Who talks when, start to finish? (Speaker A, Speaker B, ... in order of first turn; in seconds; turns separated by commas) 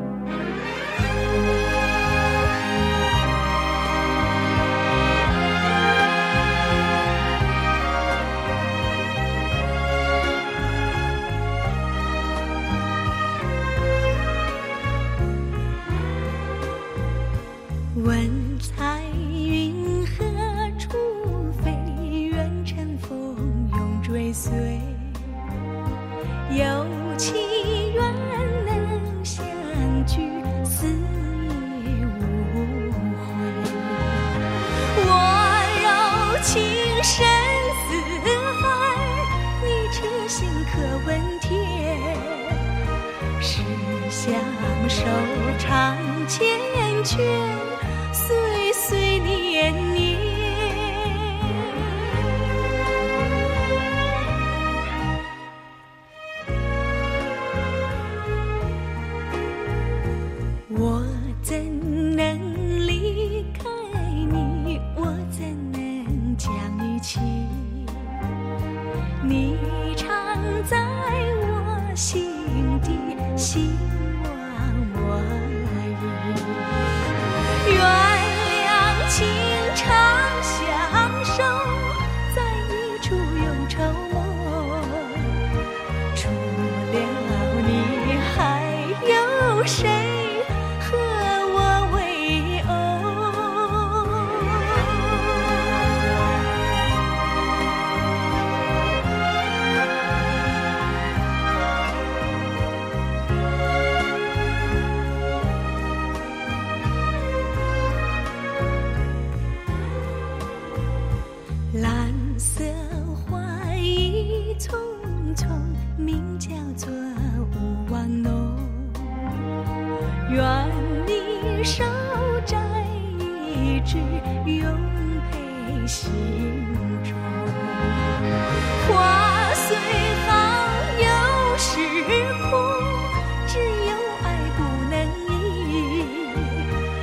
Speaker A: 17.9-25.4, Speaker A: 26.5-34.3, Speaker A: 34.9-42.7, Speaker A: 43.4-52.3, Speaker A: 60.7-68.2, Speaker A: 69.2-76.9, Speaker A: 77.6-85.4, Speaker A: 86.1-95.7, Speaker A: 111.7-119.3, Speaker A: 120.3-128.2, Speaker A: 128.8-136.7